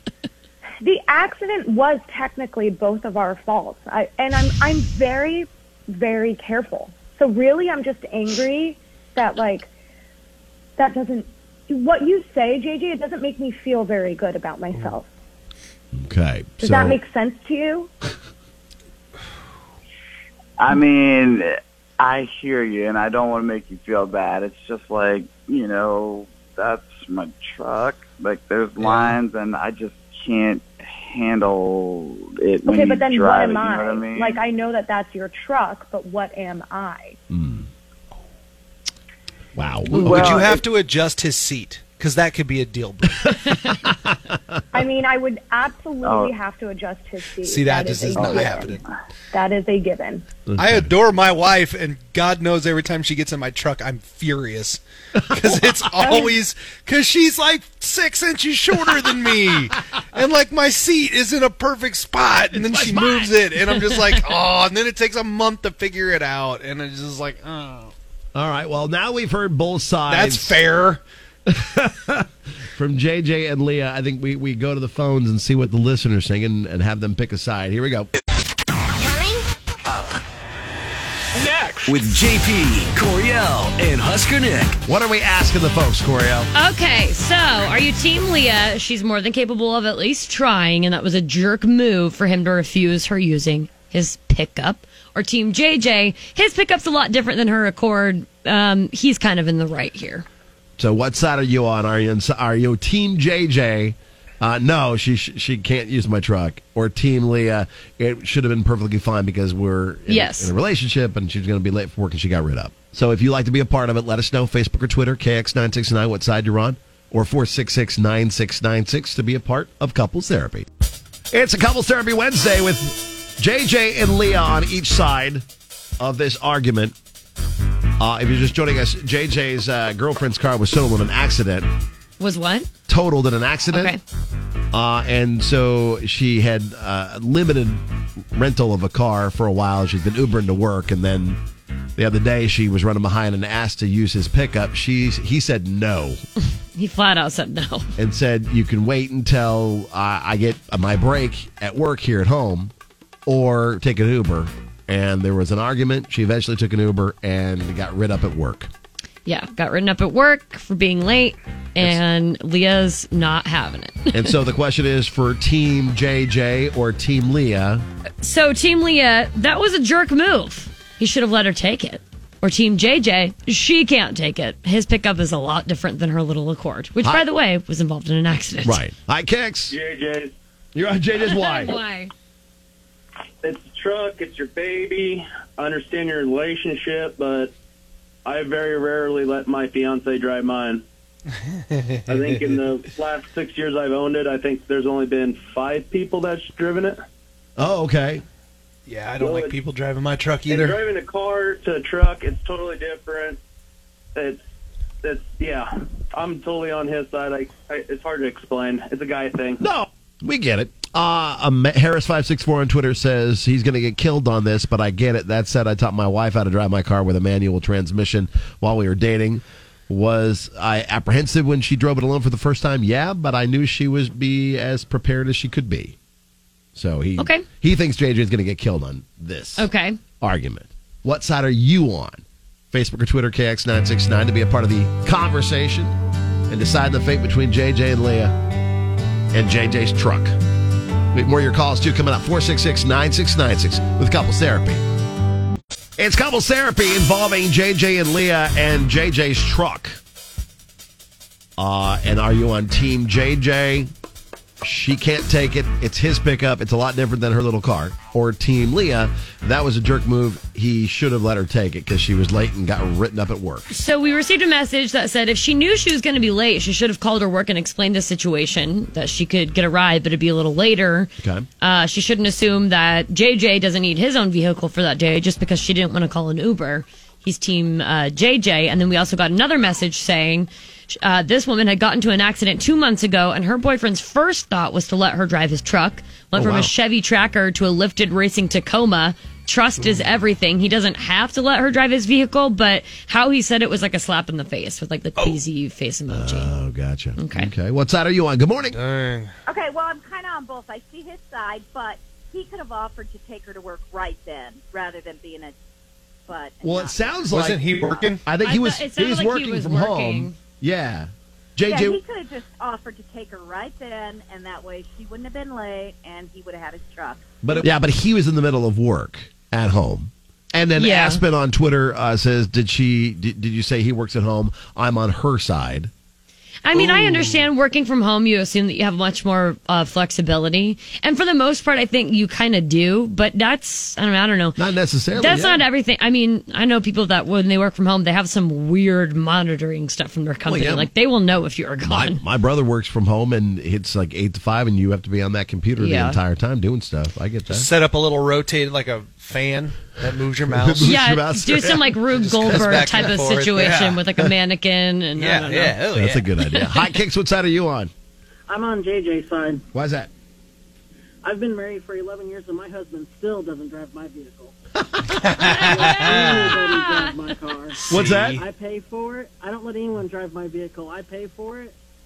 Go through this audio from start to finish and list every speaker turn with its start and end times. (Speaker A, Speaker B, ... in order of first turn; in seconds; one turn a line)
Speaker A: 0.8-9.7
Speaker A: 10.8-15.1
Speaker B: 15.9-17.0
Speaker A: 16.6-17.9
Speaker C: 20.6-21.5
Speaker C: 22.0-34.4
Speaker A: 32.7-37.2
Speaker B: 37.3-37.7
Speaker B: 39.6-40.5
Speaker D: 39.9-43.3
Speaker C: 40.0-40.6
Speaker B: 43.4-44.1
Speaker A: 44.7-48.8
Speaker C: 46.0-46.3
Speaker D: 47.4-48.8
Speaker C: 48.1-48.7
Speaker A: 49.3-50.3
Speaker B: 50.5-50.9
Speaker D: 50.6-67.9
Speaker A: 56.0-56.3
Speaker B: 62.6-63.2
Speaker B: 68.3-70.6
Speaker D: 70.1-71.0
Speaker B: 71.5-78.1
Speaker E: 81.9-84.8
Speaker B: 84.8-86.5
Speaker F: 86.5-100.3
Speaker B: 100.8-120.7
Speaker F: 110.1-110.5
Speaker B: 121.3-125.5
Speaker B: 126.0-126.9
Speaker B: 128.0-131.7
Speaker F: 132.2-132.7
Speaker B: 132.9-134.0
Speaker F: 133.7-134.0
Speaker B: 134.7-137.8
Speaker B: 138.3-141.4
Speaker B: 142.0-146.2
Speaker F: 146.8-147.9
Speaker B: 148.0-152.7
Speaker B: 153.3-158.7
Speaker F: 159.3-164.4
Speaker B: 164.1-167.8
Speaker F: 168.2-178.8
Speaker B: 178.6-179.8
Speaker G: 179.7-180.3
Speaker B: 180.8-181.8
Speaker F: 181.2-182.1
Speaker G: 183.4-187.5
Speaker G: 188.2-190.8
Speaker D: 191.7-192.5
Speaker G: 192.1-197.0
Speaker B: 197.6-198.2
Speaker D: 198.9-200.8
Speaker G: 199.2-199.6
Speaker G: 200.5-203.4
Speaker G: 204.2-204.4
Speaker G: 205.0-209.6
Speaker B: 209.6-226.0
Speaker B: 226.8-229.7
Speaker F: 227.2-227.5
Speaker F: 229.6-230.0
Speaker B: 230.2-235.9
Speaker B: 236.5-238.4
Speaker B: 239.3-240.3
Speaker B: 241.1-244.8
Speaker B: 246.0-250.0
Speaker B: 251.6-253.9
Speaker B: 254.6-263.7
Speaker F: 263.7-271.1
Speaker B: 271.2-271.5
Speaker F: 271.6-296.5
Speaker B: 286.3-286.7
Speaker B: 296.1-298.8
Speaker F: 297.2-297.5
Speaker D: 298.7-299.3
Speaker H: 299.5-305.5
Speaker H: 306.3-307.2
Speaker B: 306.6-307.7
Speaker D: 307.3-308.3
Speaker B: 308.2-312.0
Speaker F: 308.4-310.4
Speaker H: 311.7-317.2
Speaker B: 317.4-325.9
Speaker F: 320.8-321.2
Speaker F: 326.6-334.6
Speaker B: 326.7-327.5
Speaker B: 334.6-335.6
Speaker F: 335.1-342.2
Speaker B: 340.5-340.9
Speaker B: 341.8-347.7
Speaker F: 345.8-346.2
Speaker D: 347.5-350.9
Speaker B: 350.5-353.1
Speaker F: 350.8-355.8
Speaker D: 352.1-354.0
Speaker D: 355.1-356.3
Speaker B: 355.9-357.9
Speaker F: 356.4-357.0
Speaker I: 358.5-359.6
Speaker B: 359.7-360.1
Speaker I: 361.2-364.6
Speaker D: 365.2-366.5
Speaker F: 365.3-367.7
Speaker I: 365.7-371.8
Speaker D: 367.9-368.4
Speaker B: 367.9-368.4